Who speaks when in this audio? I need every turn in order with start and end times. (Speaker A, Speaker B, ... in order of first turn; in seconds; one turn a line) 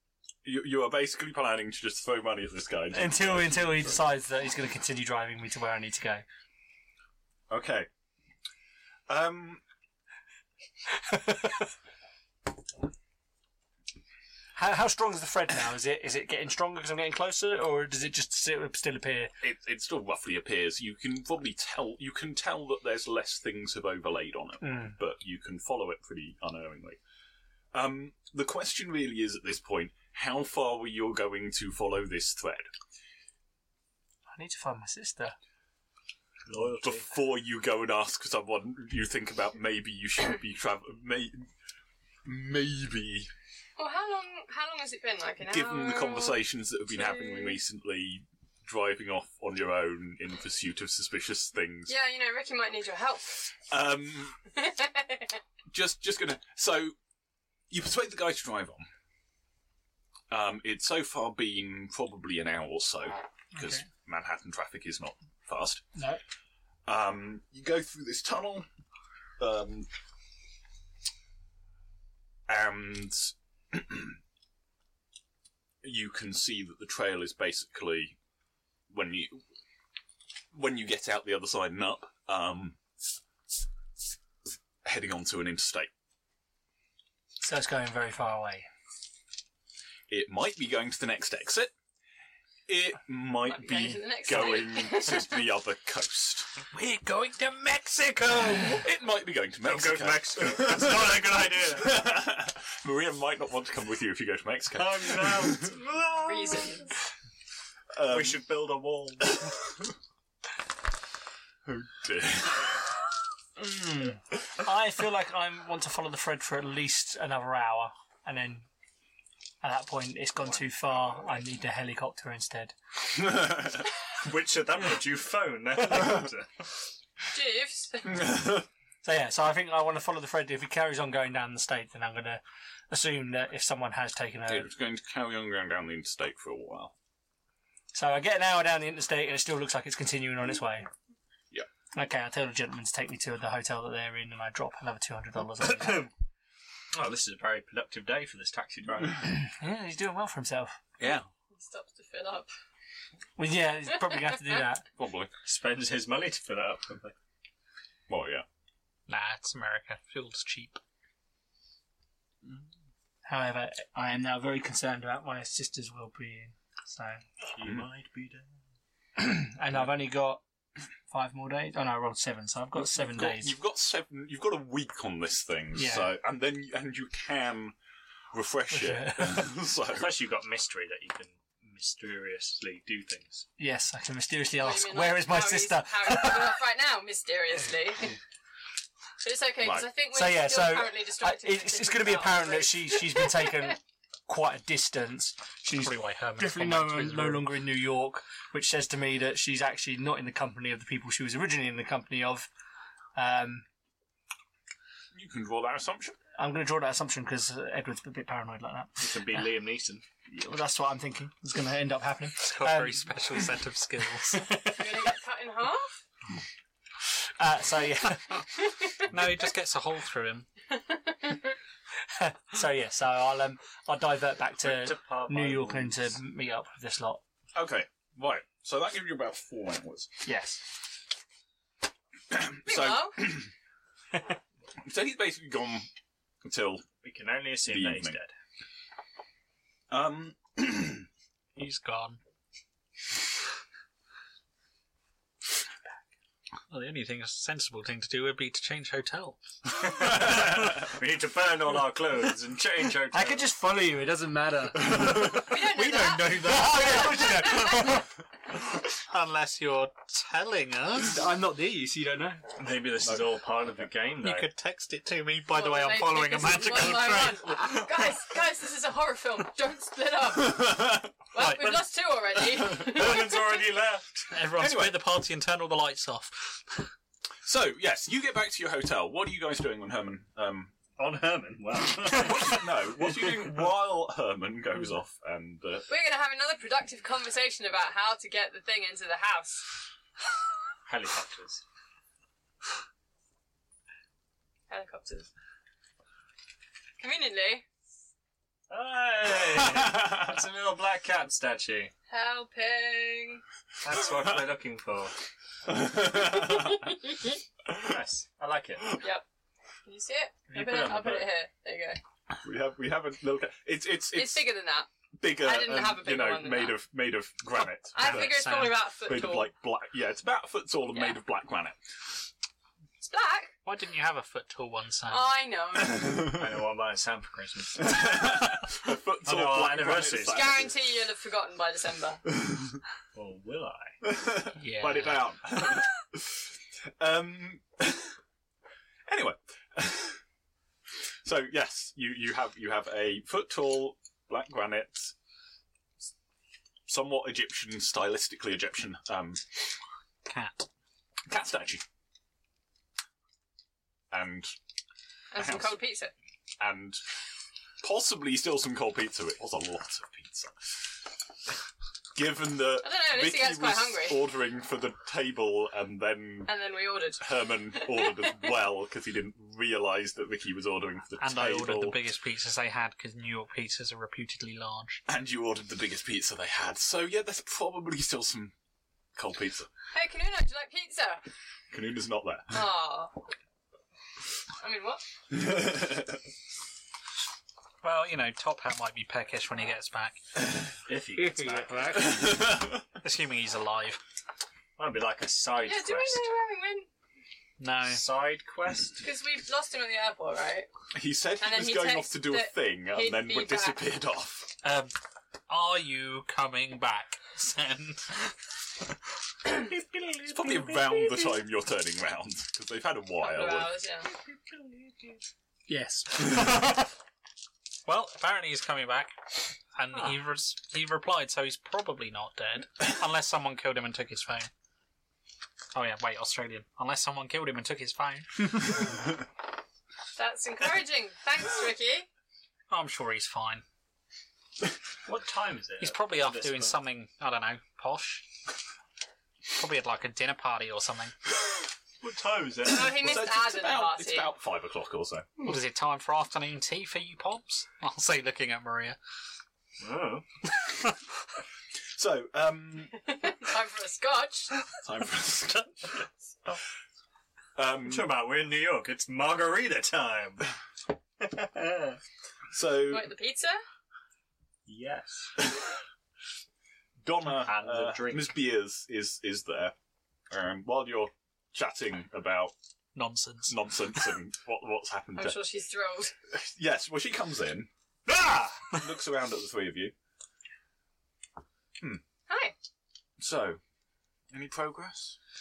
Speaker A: 0.4-4.0
Speaker B: 2.9-6.2
Speaker A: 7.5-7.9
Speaker A: 9.1-9.6
Speaker B: 10.9-11.7
Speaker B: 14.6-19.3
Speaker A: 19.4-27.0
Speaker B: 24.6-25.0
Speaker A: 27.7-32.7
Speaker B: 34.3-35.4
Speaker C: 36.5-37.1
Speaker A: 36.5-41.5
Speaker A: 42.2-43.3
Speaker D: 43.8-46.4
Speaker A: 45.5-51.9
Speaker D: 46.9-47.6
Speaker D: 51.9-53.5
Speaker A: 53.7-54.4
Speaker D: 54.5-55.4
Speaker A: 55.7-57.0
Speaker A: 57.7-58.9
Speaker A: 60.3-65.8
Speaker B: 66.0-66.2
Speaker A: 66.9-68.7
Speaker A: 69.4-69.9
Speaker A: 72.5-74.2
Speaker A: 75.8-78.2
Speaker A: 78.9-79.4
Speaker A: 80.5-82.8
Speaker A: 84.8-85.9
Speaker B: 87.4-88.7
Speaker A: 90.1-91.7
Speaker A: 92.7-96.5
Speaker D: 93.5-95.4
Speaker E: 96.7-98.8
Speaker A: 98.8-105.7
Speaker C: 99.6-102.0
Speaker C: 104.7-106.8
Speaker D: 106.2-107.0
Speaker A: 107.9-108.5
Speaker C: 108.1-109.4
Speaker A: 109.2-109.9
Speaker A: 111.7-112.9
Speaker B: 113.6-118.7
Speaker B: 119.6-122.8
Speaker A: 123.2-123.8
Speaker C: 124.2-126.6
Speaker D: 127.3-128.2
Speaker A: 128.1-128.7
Speaker B: 129.0-134.7
Speaker A: 134.5-136.9
Speaker B: 137.9-140.9
Speaker B: 141.9-146.1
Speaker C: 145.7-146.1
Speaker C: 146.9-149.4
Speaker B: 149.3-150.8
Speaker A: 151.0-151.3
Speaker D: 151.5-152.5
Speaker B: 153.4-154.8
Speaker A: 155.0-155.3
Speaker C: 155.4-157.2
Speaker A: 158.1-158.4
Speaker E: 159.1-160.8
Speaker B: 163.3-167.2
Speaker C: 167.4-168.5
Speaker A: 167.6-167.9
Speaker B: 169.2-170.4
Speaker B: 171.1-173.6
Speaker A: 172.8-177.8
Speaker B: 175.8-176.2
Speaker A: 178.3-180.2
Speaker B: 178.7-179.5
Speaker C: 179.9-183.5
Speaker B: 183.6-186.6
Speaker D: 184.6-188.2
Speaker D: 189.2-193.7
Speaker A: 189.6-189.9
Speaker B: 190.1-202.5
Speaker E: 195.7-197.5
Speaker B: 203.2-203.7
Speaker A: 205.1-206.2
Speaker B: 206.4-209.5
Speaker C: 209.0-210.0
Speaker B: 210.3-213.2
Speaker E: 212.4-214.5
Speaker B: 214.3-215.0
Speaker D: 214.7-216.0
Speaker B: 217.3-218.5
Speaker E: 219.1-220.5
Speaker D: 220.7-221.6
Speaker B: 222.1-227.2
Speaker C: 224.7-226.0
Speaker A: 227.6-230.1
Speaker B: 230.2-230.6
Speaker A: 232.3-233.5
Speaker D: 232.7-233.2
Speaker A: 234.8-235.9
Speaker A: 236.4-236.9
Speaker C: 237.0-238.3
Speaker A: 237.7-238.2
Speaker A: 239.9-241.1
Speaker E: 241.6-242.2
Speaker E: 246.7-249.4
Speaker C: 249.8-253.5
Speaker A: 250.0-251.0
Speaker B: 253.1-258.1
Speaker A: 254.9-255.4
Speaker D: 255.3-258.0
Speaker E: 259.0-261.2
Speaker B: 261.0-262.4
Speaker C: 262.6-264.5
Speaker A: 263.0-263.9
Speaker E: 264.2-267.9
Speaker D: 265.5-273.7
Speaker A: 270.4-271.1
Speaker E: 271.4-271.9
Speaker C: 272.6-274.3
Speaker E: 274.3-276.8
Speaker A: 274.6-275.1
Speaker A: 277.4-280.8
Speaker C: 281.0-282.7
Speaker A: 282.0-285.9
Speaker D: 285.9-289.7
Speaker C: 290.9-291.6
Speaker D: 294.7-295.3
Speaker D: 297.0-297.6
Speaker C: 298.7-301.9
Speaker A: 299.6-300.3
Speaker D: 302.1-303.4
Speaker C: 303.8-305.1
Speaker A: 305.7-306.9
Speaker D: 306.5-306.9
Speaker C: 307.7-309.1
Speaker D: 309.9-312.0
Speaker C: 310.5-311.3
Speaker A: 312.4-314.5
Speaker D: 314.1-316.8
Speaker A: 315.2-318.4
Speaker D: 317.9-319.5
Speaker E: 318.0-318.8
Speaker A: 319.1-321.8
Speaker D: 320.9-321.2
Speaker D: 323.0-323.6
Speaker E: 323.6-325.3
Speaker D: 325.1-326.2
Speaker A: 325.7-326.5
Speaker C: 326.2-328.3
Speaker A: 327.8-330.7
Speaker C: 329.2-330.6
Speaker D: 330.2-332.2
Speaker A: 332.4-332.8
Speaker C: 333.1-334.0
Speaker A: 334.0-338.2
Speaker E: 334.6-335.2
Speaker A: 339.1-340.2
Speaker A: 341.2-345.1
Speaker A: 346.9-349.8
Speaker E: 350.3-350.7
Speaker A: 351.3-351.8
Speaker A: 354.1-354.5
Speaker D: 355.3-356.1
Speaker A: 355.4-355.8
Speaker A: 356.6-357.0
Speaker A: 357.8-360.9
Speaker A: 362.1-366.5
Speaker D: 362.8-364.2
Speaker D: 366.5-367.2
Speaker A: 367.2-372.0
Speaker D: 367.8-368.3
Speaker E: 371.2-375.0
Speaker A: 375.1-378.5
Speaker A: 379.2-379.7
Speaker D: 379.9-381.2
Speaker A: 381.7-382.7
Speaker D: 382.5-383.1
Speaker D: 384.6-385.0
Speaker A: 385.3-386.2
Speaker E: 387.8-390.2
Speaker C: 390.9-392.0
Speaker B: 391.2-392.2
Speaker A: 391.9-392.8
Speaker E: 393.0-394.0
Speaker C: 394.8-396.3
Speaker D: 395.6-396.9
Speaker E: 397.6-398.0
Speaker C: 397.9-399.1
Speaker D: 399.0-400.7
Speaker A: 400.9-404.5
Speaker D: 401.4-403.8
Speaker E: 404.6-404.9
Speaker E: 405.5-408.3
Speaker C: 409.8-410.3
Speaker A: 410.3-413.8
Speaker D: 413.2-414.1
Speaker B: 415.7-416.9
Speaker E: 417.9-424.5
Speaker E: 425.7-428.7
Speaker D: 430.2-432.1
Speaker E: 432.7-433.6
Speaker C: 435.1-436.8
Speaker E: 435.8-438.3
Speaker E: 439.5-441.1
Speaker C: 442.0-443.1
Speaker D: 442.6-444.3
Speaker A: 442.7-445.3
Speaker E: 445.4-449.0
Speaker C: 449.8-450.2
Speaker A: 451.9-452.9
Speaker D: 453.1-454.5
Speaker A: 454.8-456.0
Speaker A: 457.6-458.2
Speaker C: 457.8-460.5
Speaker C: 461.2-462.0
Speaker A: 462.5-463.1
Speaker D: 462.9-463.6
Speaker C: 464.7-465.3
Speaker A: 467.0-469.8
Speaker C: 467.3-468.4
Speaker A: 470.3-472.5
Speaker E: 472.9-473.6
Speaker A: 473.5-475.4
Speaker D: 475.1-476.1
Speaker A: 476.3-477.7
Speaker C: 478.1-478.9
Speaker A: 478.7-479.9
Speaker D: 482.3-482.5
Speaker A: 483.2-483.6
Speaker A: 484.3-485.2